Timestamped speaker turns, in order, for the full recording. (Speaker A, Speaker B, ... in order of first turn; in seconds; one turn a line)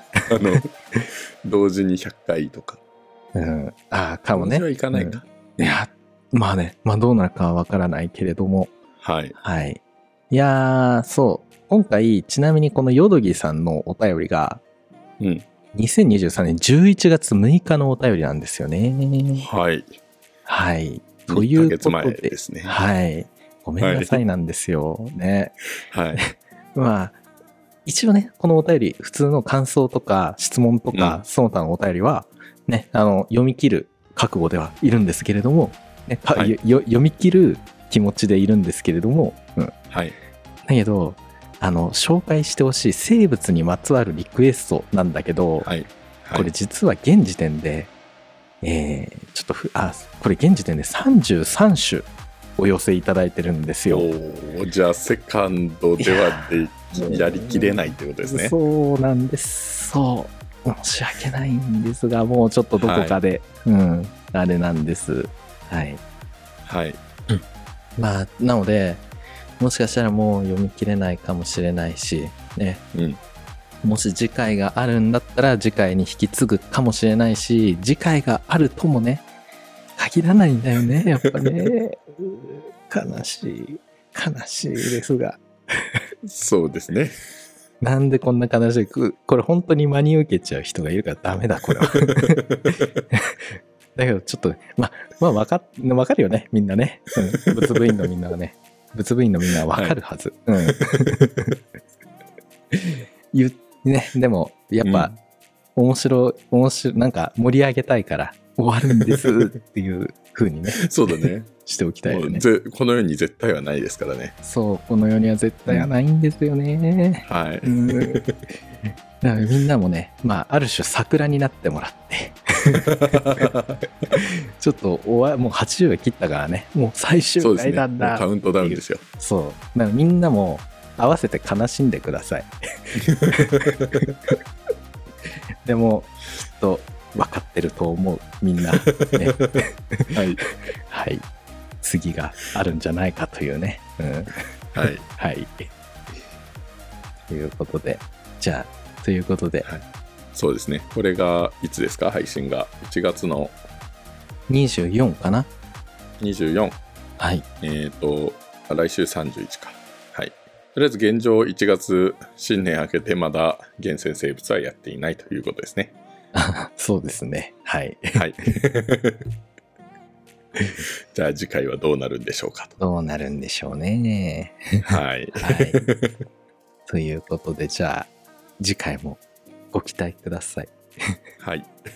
Speaker A: 0.3-2.8
Speaker B: 3.3-8.7
Speaker A: 4.3-5.8
Speaker A: 9.0-9.3
Speaker B: 9.4-9.8
Speaker B: 10.3-14.6
Speaker A: 15.2-15.4
Speaker B: 15.7-19.5
Speaker A: 19.4-19.9
Speaker B: 20.4-25.6
Speaker A: 21.3-22.7
Speaker A: 23.8-24.2
Speaker A: 25.9-26.2
Speaker B: 26.1-27.1
Speaker B: 27.8-39.7
Speaker A: 30.9-31.2
Speaker B: 40.6-45.7
Speaker A: 45.6-46.5
Speaker B: 46.3-47.9
Speaker B: 48.6-54.1
Speaker A: 53.9-58.5
Speaker B: 56.0-66.0
Speaker A: 62.8-63.2
Speaker A: 66.6-67.0
Speaker B: 68.0-69.0
Speaker B: 69.6-72.8
Speaker A: 72.9-73.2
Speaker B: 73.8-79.2
Speaker B: 80.0-86.0
Speaker A: 81.2-81.7
Speaker A: 86.2-87.2
Speaker B: 87.8-92.4
Speaker A: 91.7-92.9
Speaker B: 93.1-93.4
Speaker B: 94.0-101.5
Speaker A: 97.4-98.1
Speaker A: 99.7-100.0
Speaker A: 100.7-101.2
Speaker B: 102.7-105.1
Speaker A: 104.8-105.2
Speaker B: 105.8-112.4
Speaker A: 108.9-109.5
Speaker A: 110.8-111.5
Speaker A: 112.0-114.3
Speaker B: 114.4-118.2
Speaker A: 117.2-118.4
Speaker B: 118.8-122.8
Speaker A: 122.7-124.1
Speaker B: 124.1-133.7
Speaker A: 127.4-129.0
Speaker A: 132.9-134.3
Speaker B: 135.6-141.2
Speaker A: 138.8-140.4
Speaker B: 141.8-145.7
Speaker A: 144.7-145.0
Speaker B: 147.3-149.7
Speaker A: 150.3-153.6
Speaker B: 154.5-155.5
Speaker A: 156.2-156.8
Speaker B: 157.2-157.4
Speaker A: 157.6-165.9
Speaker B: 166.3-168.2
Speaker A: 168.1-169.2
Speaker A: 170.8-172.7
Speaker B: 172.8-174.8
Speaker A: 174.8-176.1
Speaker B: 175.4-175.8
Speaker B: 176.9-178.1
Speaker B: 178.6-179.2
Speaker B: 179.7-181.2
Speaker A: 181.4-181.7